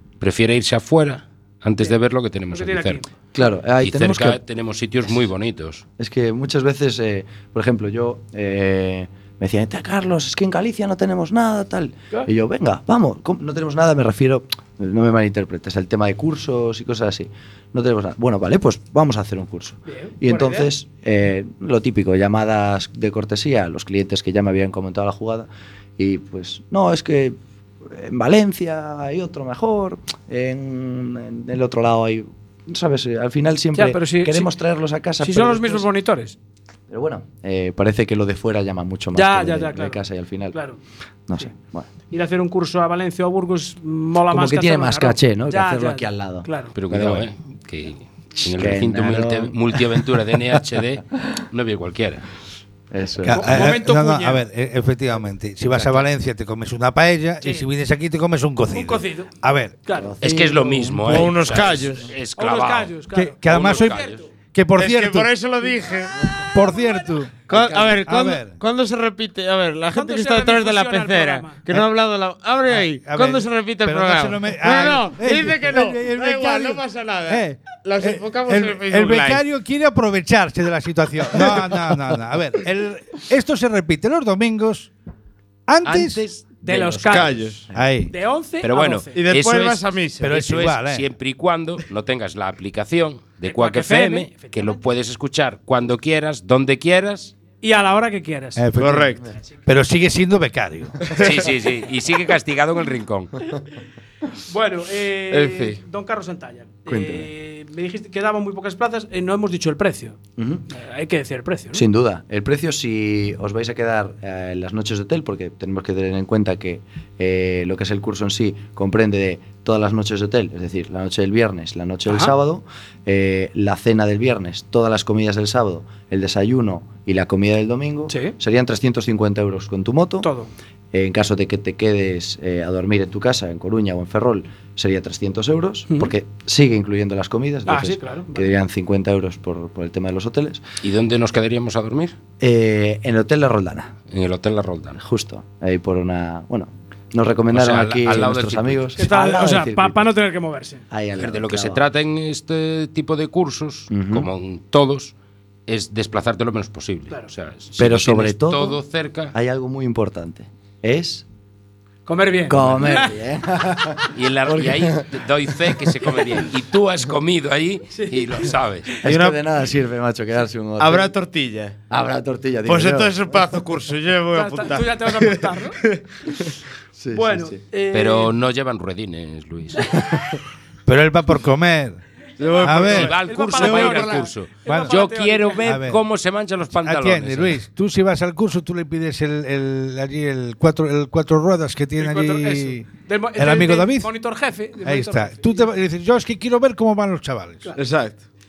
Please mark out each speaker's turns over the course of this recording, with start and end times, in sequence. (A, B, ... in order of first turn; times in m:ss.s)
0:00.2-0:03.0 A
0:02.5-0:03.1 B
0:03.3-0:04.4 C
0:03.8-0:05.8 A
0:06.0-0:27.4 C
0:19.9-0:20.7 B
0:27.9-0:35.9 C
0:33.7-0:34.6 B
0:35.2-0:36.4 B
0:36.9-0:40.6 C
0:39.1-0:40.0 B
0:40.5-0:40.8 B
0:41.3-0:41.9 C
0:42.1-0:46.7 B
0:44.3-0:47.3 C
0:46.7-0:52.2 A
0:48.5-0:50.6 C
0:52.9-0:53.7 C
0:53.2-0:59.8 D
0:53.3-0:54.4 B
0:55.7-0:56.0 A
0:57.4-0:57.7 B
0:58.7-0:59.3 B
0:59.9-1:00.2 B
1:00.0-1:01.5 C
1:00.2-1:04.2 A
1:01.0-1:02.1 E
1:02.4-1:04.3 B
1:03.1-1:05.3 D
1:04.8-1:06.6 E
1:06.4-1:07.2 B
1:06.5-1:08.6 D
1:07.5-1:19.4 E
1:09.9-1:11.6 B
1:12.7-1:24.9 D
1:21.3-1:21.7 E
1:25.7-1:26.2 D
1:25.8-1:26.6 A
1:26.6-1:29.2 B
1:26.7-1:27.2 C
1:27.0-1:27.7 E
1:27.7-1:28.1 D
1:28.6-1:37.4 A
1:29.1-1:30.4 E
1:30.2-1:31.1 D
1:33.4-1:34.8 B
1:37.6-1:38.6 B
1:38.6-1:41.1 D
1:38.8-1:39.3 E
1:41.1-1:41.3 E
1:41.2-1:43.4 A
1:44.4-1:50.2 B
1:45.3-1:45.8 E
1:46.9-1:47.3 C
1:50.4-1:50.6 C
1:50.7-1:51.8 B
1:51.7-2:10.3 C
2:08.1-2:08.4 B
2:10.2-2:10.5 B
2:10.9-2:20.6 C
2:15.9-2:16.1 B
2:17.7-2:18.5 B
2:20.8-2:22.2 A
2:22.4-2:23.9 C
2:24.1-2:25.0 A
2:25.0-2:30.1 C
2:27.5-2:29.0 A
2:29.0-2:30.8 B
2:30.9-2:31.8 C
2:31.2-2:35.1 A
2:33.9-2:34.3 C
2:35.7-2:39.4 A
2:37.8-2:38.8 C
2:39.3-2:41.3 C
2:42.1-2:43.2 B
2:42.5-2:45.1 C
2:44.1-2:49.0 A
2:45.7-2:46.3 C
2:47.9-2:48.5 B
2:49.0-2:49.4 E
2:49.0-2:51.1 C
2:50.8-2:51.7 E
2:51.9-2:53.3 C
2:52.6-2:56.0 E
2:54.3-2:55.8 B
2:57.0-2:57.6 C
2:57.1-2:58.3 B
2:57.9-3:00.0 A
3:00.9-3:02.0 D
3:02.4-3:04.3 E
3:02.6-3:03.1 D
3:02.7-3:07.6 A
3:03.1-3:05.6 B
3:04.7-3:05.0 D
3:05.6-3:06.0 D
3:06.7-3:14.1 D
3:12.0-3:15.7 B
3:14.8-3:17.7 D
3:17.8-3:18.2 E